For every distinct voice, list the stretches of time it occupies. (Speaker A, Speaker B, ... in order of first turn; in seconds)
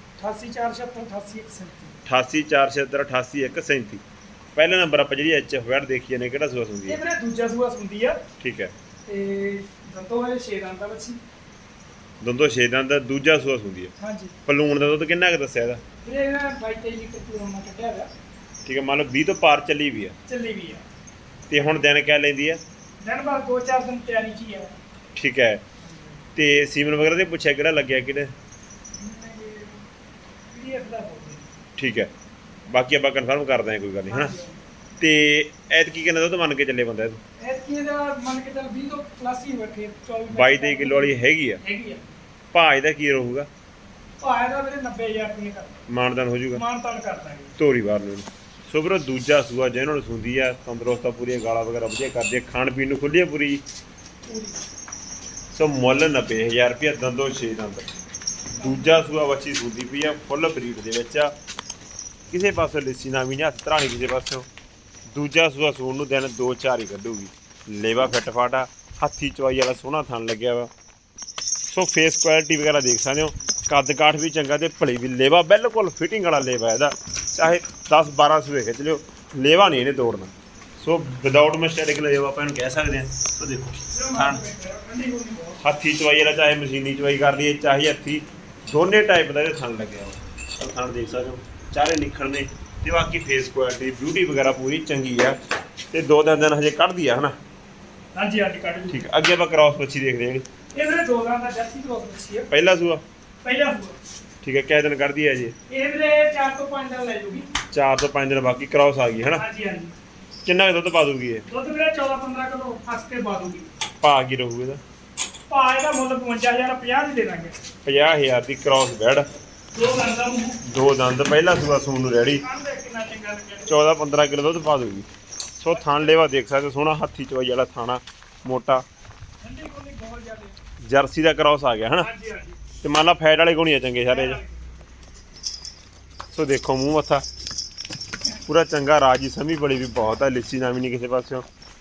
Speaker A: 0.2-2.0, 6.9-8.2, 9.1-11.2, 14.0-14.3, 16.0-18.1, 20.3-20.8, 23.0-24.8, 25.9-26.1, 29.0-29.8, 30.5-31.5, 34.1-34.6, 37.4-42.1, 44.2-45.8, 46.5-47.5, 54.3-54.6, 58.6-59.0, 83.9-85.6, 98.2-99.0, 100.7-102.5, 103.4-104.0, 105.7-107.5, 109.3-109.9, 111.5-113.7, 115.5-117.6, 119.7-120.6, 122.4-123.8, 125.7-126.2, 129.4-130.6, 132.0-132.6, 134.1-134.8
Speaker B: 2.1-4.0, 4.6-7.0, 8.4-8.7, 12.2-13.9, 14.5-15.8, 18.7-20.2, 21.5-22.6, 25.1-25.6, 26.4-28.3, 31.8-32.1, 32.7-34.4, 35.0-37.2, 40.3-41.6, 42.5-43.5, 45.9-46.6, 47.6-53.6, 55.5-57.9, 58.6-61.3, 62.3-64.5, 65.1-70.7, 71.7-84.4, 85.6-95.4, 95.9-97.3, 98.9-100.5, 102.5-103.0, 104.4-105.5, 107.7-109.4, 110.5-111.5, 114.0-114.8, 117.8-119.3, 120.6-122.5, 123.7-125.1, 125.6-128.8, 130.8-132.1, 132.8-134.4, 136.3-137.2, 138.5-141.4